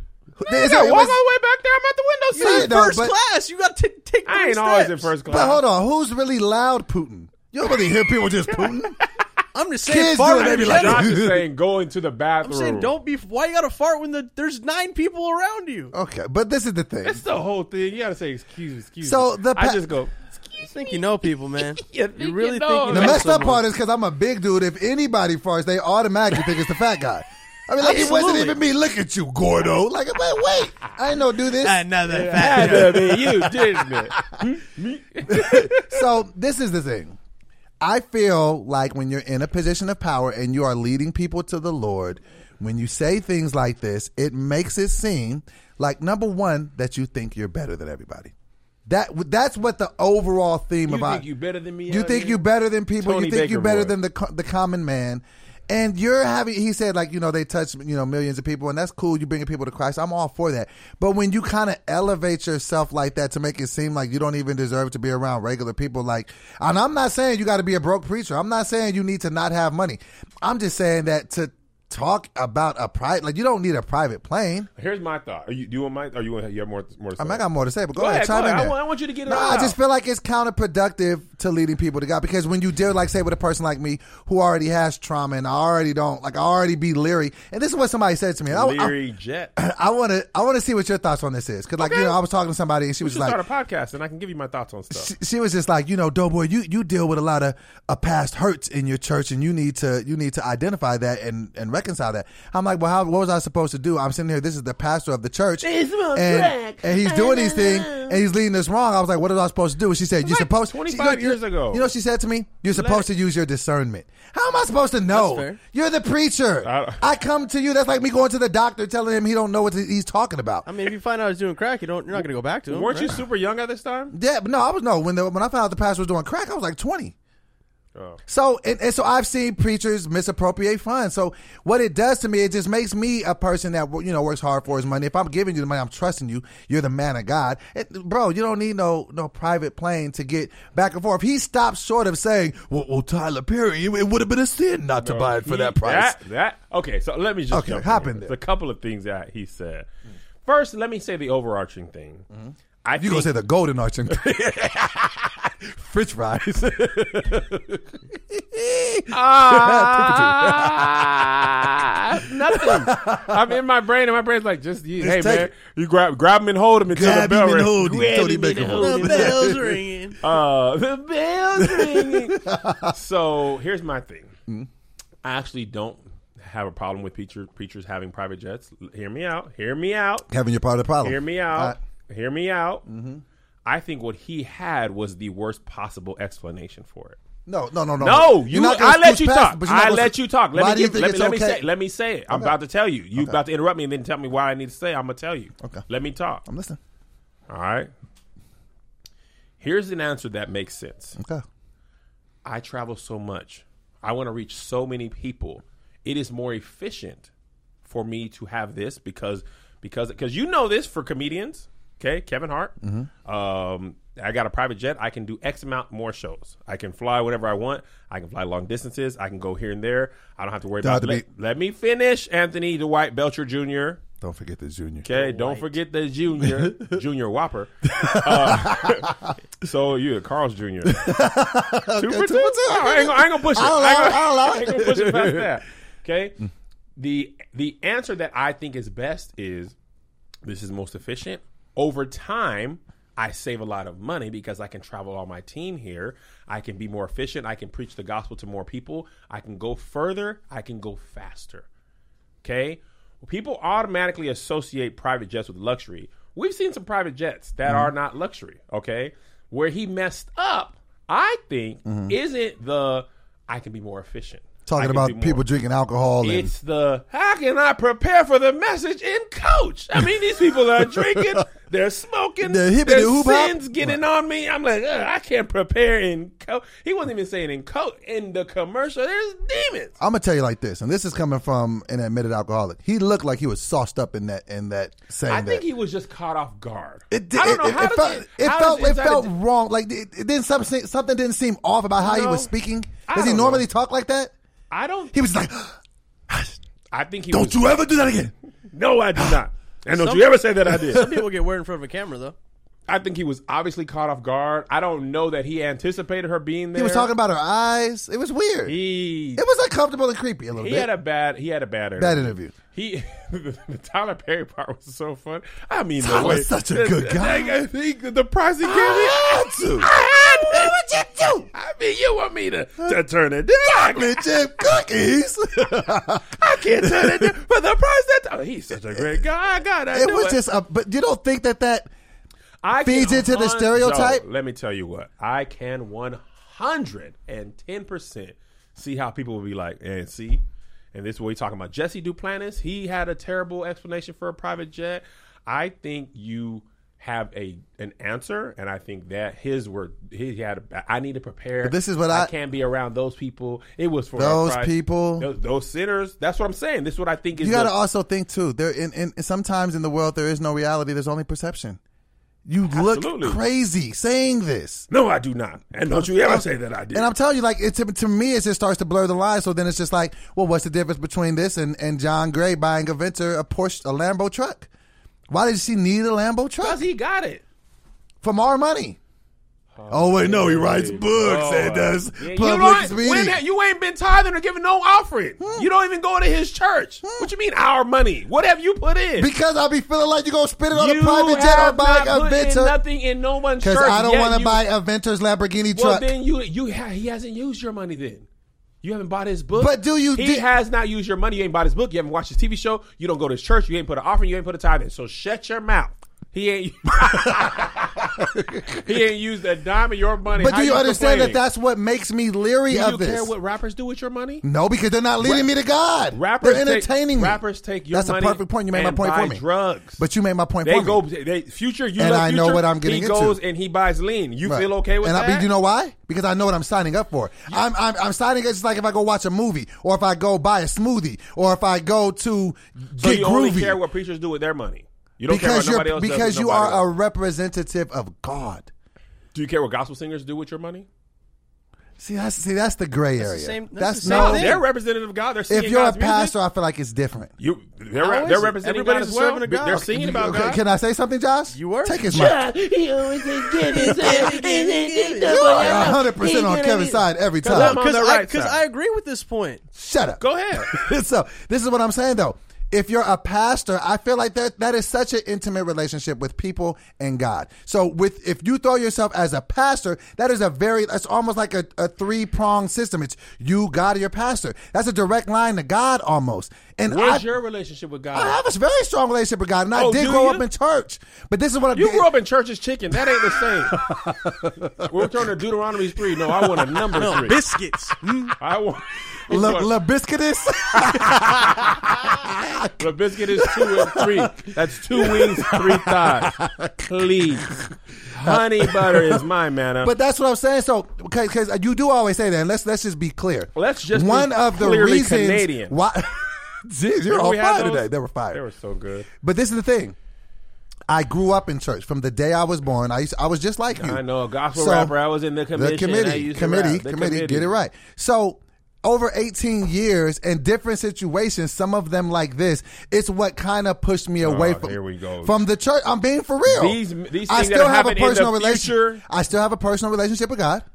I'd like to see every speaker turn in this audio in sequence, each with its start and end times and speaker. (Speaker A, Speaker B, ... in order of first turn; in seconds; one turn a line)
Speaker A: 0.4-1.1
Speaker B: 0.5-2.8
Speaker C: 2.3-5.1
Speaker A: 2.4-3.1
Speaker B: 4.2-5.6
Speaker A: 5.2-9.0
Speaker C: 9.5-11.2
Speaker A: 9.8-11.4
Speaker B: 10.3-12.9
Speaker C: 12.4-15.9
Speaker A: 15.9-17.2
Speaker B: 17.0-20.1
Speaker A: 19.0-19.8
Speaker C: 20.6-23.6
Speaker B: 21.6-23.3
Speaker A: 22.9-32.9
Speaker C: 27.8-28.6
Speaker C: 31.6-34.4
Speaker B: 32.1-36.0
Speaker A: 35.2-37.2
Speaker A: 37.8-48.3
Speaker A: 48.9-51.2
Speaker B: 50.9-52.4
Speaker A: 51.9-74.7
Speaker B: 53.0-53.9
Speaker B: 74.8-77.4
Speaker A: 77.2-88.9
Speaker B: 78.0-79.8
Speaker B: 88.5-89.5
Speaker A: 89.5-93.4
Speaker B: 91.8-92.2
Speaker B: 93.0-95.1
Speaker A: 94.9-120.7
Speaker B: 105.6-108.2
Speaker B: 110.2-111.9
Speaker B: 112.7-113.1
Speaker C: 115.1-115.6
Speaker B: 116.6-117.0
Speaker C: 120.7-123.2
Speaker B: 122.7-124.1
Speaker A: 124.1-127.1
Speaker A: 128.3-146.2
Speaker B: 145.0-149.9
Speaker A: 147.5-148.4
Speaker B: 150.4-152.2
Speaker A: 152.3-161.0
Speaker B: 152.8-153.3
Speaker B: 159.1-169.5
Speaker A: 162.2-163.3
Speaker A: 165.0-165.5
Speaker A: 166.9-169.8
Speaker C: 168.7-170.2
Speaker B: 170.2-174.3
Speaker A: 171.6-172.9
Speaker B: 175.2-180.3
Speaker A: 180.3-181.8
Speaker B: 181.0-182.8
Speaker A: 182.8-183.2
Speaker B: 183.6-187.2
Speaker A: 187.5-191.6
Speaker B: 188.0-196.4
Speaker A: 192.3-192.6
Speaker A: 196.4-196.8
Speaker B: 197.5-197.9
Speaker B: 199.6-201.2
Speaker A: 201.2-201.4
Speaker B: 202.4-207.3
Speaker B: 207.8-224.0
Speaker A: 212.8-213.1
Speaker A: 220.8-221.2
Speaker A: 224.2-225.6
Speaker B: 225.0-229.1
Speaker C: 225.1-225.5
Speaker A: 226.5-227.0
Speaker A: 227.8-229.3
Speaker B: 229.6-231.2
Speaker A: 230.8-235.5
Speaker B: 231.9-236.4
Speaker B: 237.0-239.7
Speaker B: 240.4-251.7
Speaker B: 252.4-265.4
Speaker A: 257.6-257.9
Speaker A: 261.8-262.1
Speaker A: 264.6-266.5
Speaker B: 266.2-279.9
Speaker A: 270.9-271.3
Speaker A: 272.4-274.0
Speaker A: 280.0-285.6
Speaker B: 285.3-289.3
Speaker A: 287.1-294.3
Speaker B: 292.0-292.5
Speaker B: 293.1-293.6
Speaker B: 294.7-295.1
Speaker A: 295.1-295.8
Speaker A: 296.3-296.6
Speaker B: 296.9-297.8
Speaker A: 297.3-298.3
Speaker B: 298.7-301.1
Speaker C: 299.9-302.3
Speaker A: 300.7-301.2
Speaker B: 302.9-307.1
Speaker A: 306.7-308.8
Speaker B: 308.6-309.4
Speaker A: 309.3-310.9
Speaker B: 310.5-320.8
Speaker A: 312.0-312.5
Speaker A: 316.0-317.6
Speaker A: 318.6-321.5
Speaker B: 321.5-324.8
Speaker A: 323.6-327.3
Speaker B: 326.3-330.4
Speaker A: 329.9-331.9
Speaker B: 332.6-357.7
Speaker A: 332.8-334.2
Speaker A: 351.6-352.3
Speaker A: 354.1-355.3
Speaker A: 357.4-361.8
Speaker A: 362.4-364.9
Speaker B: 362.7-363.4
Speaker B: 364.9-367.1
Speaker A: 365.9-374.7
Speaker A: 375.3-376.8
Speaker B: 376.6-377.4
Speaker A: 378.2-379.0
Speaker B: 379.7-389.3
Speaker A: 379.9-383.4
Speaker A: 385.4-385.7
Speaker A: 387.0-387.3
Speaker A: 389.2-392.8
Speaker B: 390.7-394.6
Speaker A: 393.6-396.1
Speaker B: 395.7-398.2
Speaker B: 398.8-408.3
Speaker A: 399.6-400.5
Speaker A: 407.0-408.9
Speaker B: 408.8-411.4
Speaker A: 410.3-413.3
Speaker B: 412.7-414.4
Speaker A: 414.4-419.4
Speaker B: 415.2-415.5
Speaker B: 416.1-420.0
Speaker A: 420.0-421.0
Speaker B: 420.6-425.5
Speaker A: 422.0-423.4
Speaker A: 424.4-433.8
Speaker B: 432.9-436.9
Speaker A: 435.3-438.7
Speaker B: 439.3-440.9
Speaker A: 442.0-444.6
Speaker C: 443.2-444.6
Speaker B: 444.0-446.3
Speaker A: 445.5-447.3
Speaker B: 447.4-450.6
Speaker C: 448.0-449.9
Speaker A: 449.7-452.4
Speaker C: 451.5-452.0
Speaker B: 452.0-458.6
Speaker C: 453.7-456.0
Speaker A: 453.8-454.1
Speaker A: 455.2-457.8
Speaker C: 457.5-459.6
Speaker A: 459.7-477.3
Speaker B: 460.2-460.7
Speaker B: 476.9-478.4
Speaker A: 478.1-482.1
Speaker B: 479.7-480.5
Speaker B: 481.7-483.8
Speaker A: 483.2-485.1
Speaker B: 484.8-487.4
Speaker A: 486.2-486.9
Speaker C: 486.9-488.4
Speaker B: 488.4-489.7
Speaker A: 489.3-492.7
Speaker B: 490.9-491.6
Speaker B: 492.8-497.5
Speaker A: 493.3-497.0
Speaker B: 498.1-499.9
Speaker A: 498.2-499.2
Speaker A: 499.8-508.4
Speaker B: 503.5-505.8
Speaker B: 507.1-509.1
Speaker A: 509.2-509.9
Speaker A: 510.9-514.0
Speaker B: 513.7-517.5
Speaker A: 514.5-514.9
Speaker A: 515.5-530.6
Speaker B: 524.2-525.4
Speaker B: 526.5-529.0